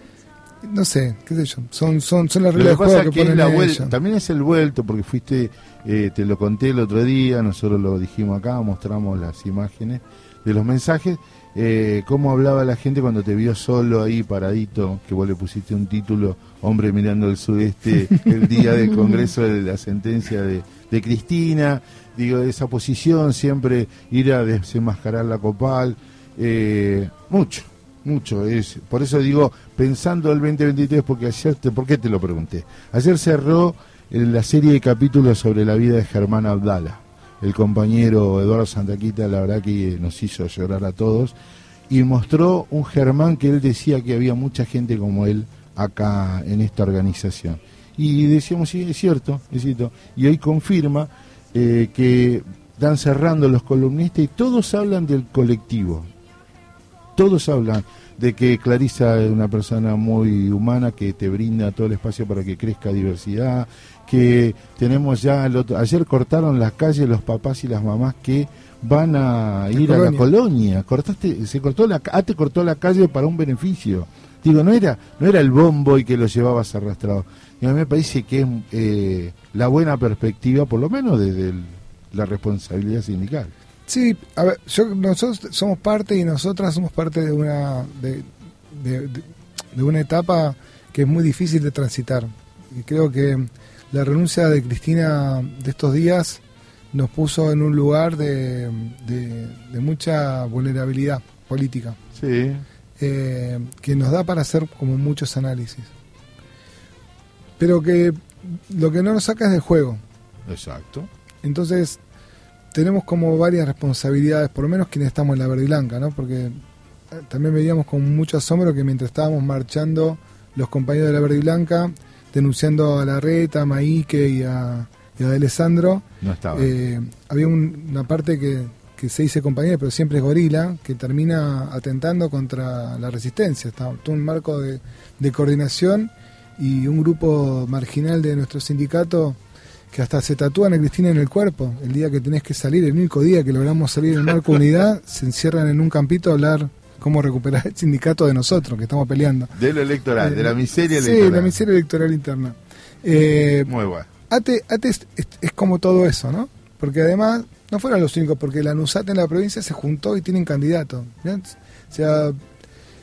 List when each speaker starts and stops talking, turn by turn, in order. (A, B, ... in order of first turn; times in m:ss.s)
0:00.6-0:03.9 A
0:02.6-0:41.4 B
0:41.9-0:56.1 B
0:57.2-1:23.5 B
1:09.8-1:10.2 A
1:23.9-1:36.4 A
1:36.9-1:42.0 A
1:42.2-1:42.6 B
1:43.0-1:45.9 A
1:47.6-1:50.0 A
1:50.5-1:51.1 B
1:51.4-1:52.0 A
1:52.7-1:56.6 A
1:57.1-2:19.4 A
2:06.2-2:06.7 B
2:19.9-2:29.5 A
2:29.6-2:31.6 B
2:30.2-2:33.7 A
2:33.7-2:34.1 B
2:34.3-2:42.4 A